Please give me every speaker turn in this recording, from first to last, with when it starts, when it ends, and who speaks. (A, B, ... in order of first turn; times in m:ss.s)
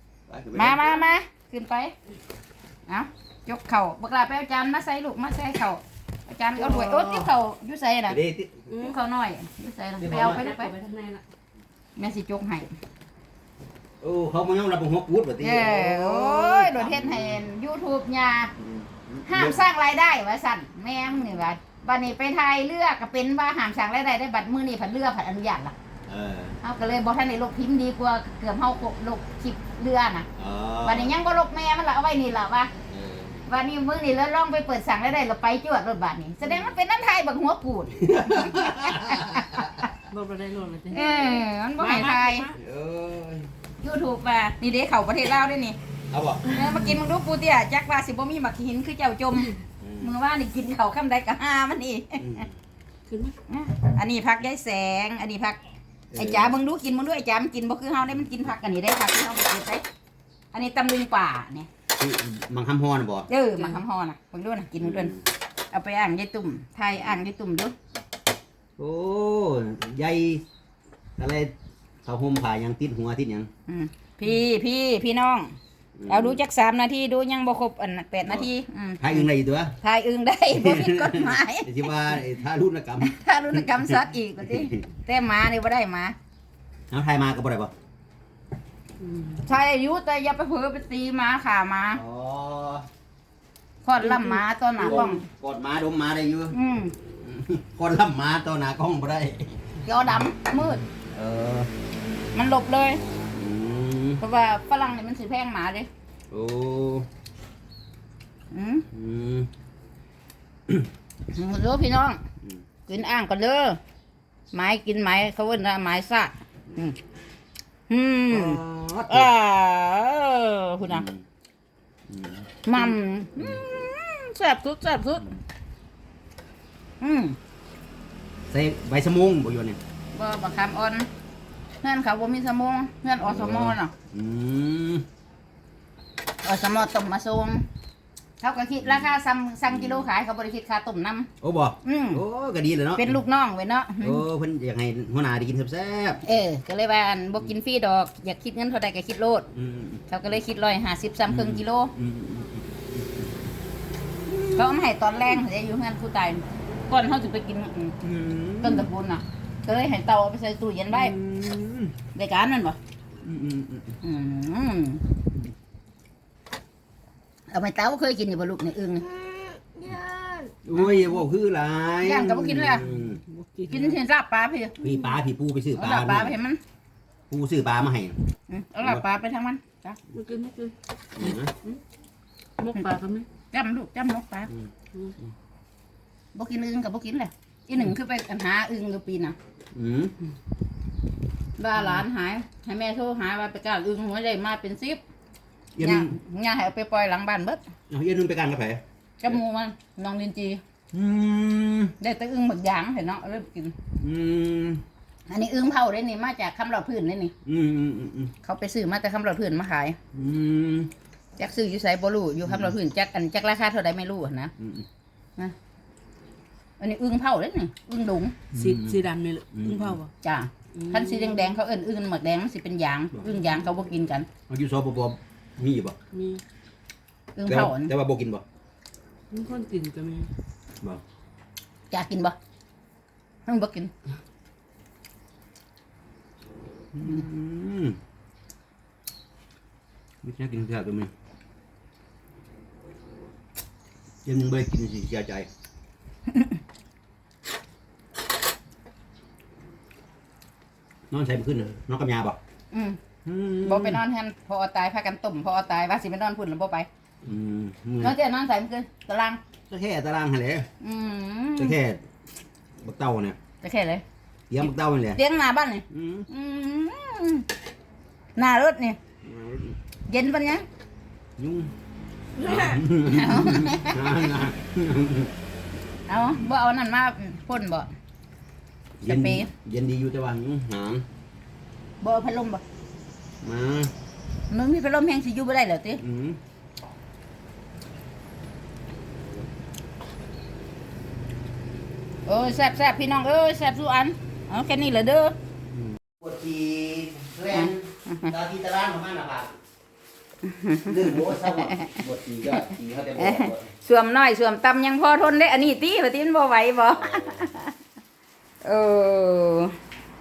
0:00.3-0:01.0 A
0:00.5-0:01.9 B
0:02.9-0:08.2 B
0:06.6-0:07.3 A
0:08.1-0:08.7 A
0:08.7-0:10.7 B
0:10.0-0:10.5 A
0:10.1-0:11.2 C
0:12.0-0:12.7 B
0:14.0-0:17.4 A
0:15.4-0:18.5 B
0:18.6-0:19.6 A
0:19.2-0:25.7 B
0:26.1-0:26.6 A
0:26.6-0:30.3 B
0:30.4-0:31.2 A
0:30.8-0:32.7 B
0:32.9-0:33.4 A
0:33.4-0:39.9 B
0:38.0-0:39.9 A
0:40.1-0:42.6 C
0:40.9-0:42.5 B
0:42.5-0:43.5 A
0:43.8-0:45.8 B
0:46.1-0:46.5 A
0:46.5-0:52.4 B
0:49.8-0:50.1 A
0:52.2-0:52.5 A
0:53.1-0:53.3 C
0:53.5-0:55.6 B
0:56.1-0:56.6 A
0:56.2-0:59.8 B
1:00.5-1:01.7 B
1:02.0-1:03.3 A
1:03.3-1:05.2 B
1:04.8-1:05.2 A
1:05.7-1:07.7 B
1:08.8-1:10.4 A
1:11.2-1:11.5 A
1:12.0-1:13.5 A
1:13.7-1:15.6 B
1:16.0-1:16.4 A
1:16.1-1:19.3 B
1:19.0-1:19.8 A
1:19.8-1:22.0 B
1:20.5-1:24.8 A
1:23.0-1:26.2 B
1:26.9-1:27.7 A
1:29.0-1:29.4 C
1:29.4-1:32.0 B
1:31.9-1:32.9 A
1:33.8-1:35.2 B
1:34.0-1:35.0 C
1:34.8-1:36.5 A
1:36.5-1:36.9 B
1:37.2-1:39.6 A
1:39.8-1:40.8 B
1:40.9-1:41.7 A
1:42.3-1:43.0 B
1:43.3-1:44.2 A
1:44.2-1:45.9 B
1:46.3-1:47.1 A
1:48.5-1:48.8 B
1:48.9-1:49.5 A
1:51.3-1:52.2 B
1:52.9-1:53.8 B
1:54.5-1:57.0 B
1:57.9-2:01.0 B
1:58.3-1:59.3 A
2:00.8-2:01.2 A
2:02.1-2:03.6 A
2:02.6-2:05.4 B
2:07.0-2:07.4 B
2:08.5-2:09.8 A
2:10.1-2:11.1 B
2:11.8-2:13.9 B
2:13.2-2:15.0 A
2:16.4-2:17.6 B
2:18.4-2:21.3 B
2:18.8-2:19.1 A
2:19.6-2:20.1 A
2:21.4-2:23.2 A
2:21.8-2:22.2 B
2:23.0-2:24.2 B
2:24.0-2:26.2 A
2:26.2-2:29.5 B
2:29.5-2:30.0 A
2:30.1-2:31.9 B
2:31.3-2:33.3 A
2:34.2-2:34.7 A
2:34.5-2:38.0 B
2:38.0-2:38.9 A
2:38.6-2:41.1 B
2:40.9-2:42.0 A
2:42.1-2:42.8 B
2:43.2-2:44.0 A
2:44.0-2:45.1 B
2:47.5-2:49.1 B
2:49.0-2:53.2 A
2:52.0-2:52.9 B
2:52.9-2:54.0 C
2:53.7-2:54.8 B
2:54.8-2:56.4 A
2:55.7-2:56.6 B
2:57.3-2:58.2 A
2:58.5-3:00.0 B
3:00.1-3:00.7 C
3:01.2-3:01.5 A
3:02.6-3:03.3 C
3:03.5-3:04.5 B
3:06.3-3:09.4 B
3:09.7-3:10.2 A
3:11.6-3:15.0 B
3:15.8-3:16.1 A
3:15.8-3:17.6 B
3:17.9-3:19.4 A
3:19.2-3:20.6 B
3:20.9-3:21.9 A
3:22.0-3:23.7 B
3:23.9-3:24.8 A
3:25.3-3:27.3 B
3:27.4-3:28.3 A
3:28.4-3:30.0 B
3:30.1-3:30.9 A
3:31.4-3:34.5 B
3:32.4-3:32.7 A
3:34.6-3:34.8 A
3:36.8-3:38.4 B
3:38.5-3:40.0 A
3:38.5-3:40.1 C
3:40.2-3:44.3 B
3:40.7-3:41.4 C
3:44.5-3:46.0 A
3:46.1-3:46.4 C
3:47.4-3:47.9 B
3:47.5-3:48.4 A
3:49.3-3:50.3 C
3:51.9-3:52.4 B
3:53.4-3:53.9 B
3:56.9-3:58.0 A
4:00.2-4:01.1 A
4:04.2-4:05.5 A
4:11.1-4:12.4 A
4:12.7-4:13.0 B
4:13.2-4:14.0 A
4:13.6-4:16.9 B
4:17.2-4:18.2 A
4:18.0-4:19.4 B
4:19.7-4:20.7 A
4:20.8-4:21.8 B
4:21.6-4:22.0 A
4:22.8-4:23.4 A
4:23.6-4:24.0 B
4:24.5-4:25.2 A
4:25.2-4:27.5 B
4:25.9-4:26.3 A
4:28.4-4:29.0 B
4:29.2-4:29.8 A
4:30.1-4:30.6 B
4:31.4-4:31.7 A
4:32.4-4:32.8 C
4:32.4-4:35.3 A
4:33.1-4:34.4 B
4:36.1-4:37.9 B
4:39.0-4:41.0 A
4:39.0-4:39.5 B
4:42.0-4:42.6 B
4:43.4-4:43.9 A
4:44.5-4:46.0 B
4:46.0-4:46.4 A
4:52.3-4:55.3 B
4:55.7-4:59.6 A
4:57.5-4:58.3 B
5:00.4-5:01.9 B
5:00.8-5:03.7 A
5:03.2-5:07.7 B
5:06.9-5:07.5 A
5:08.6-5:09.7 B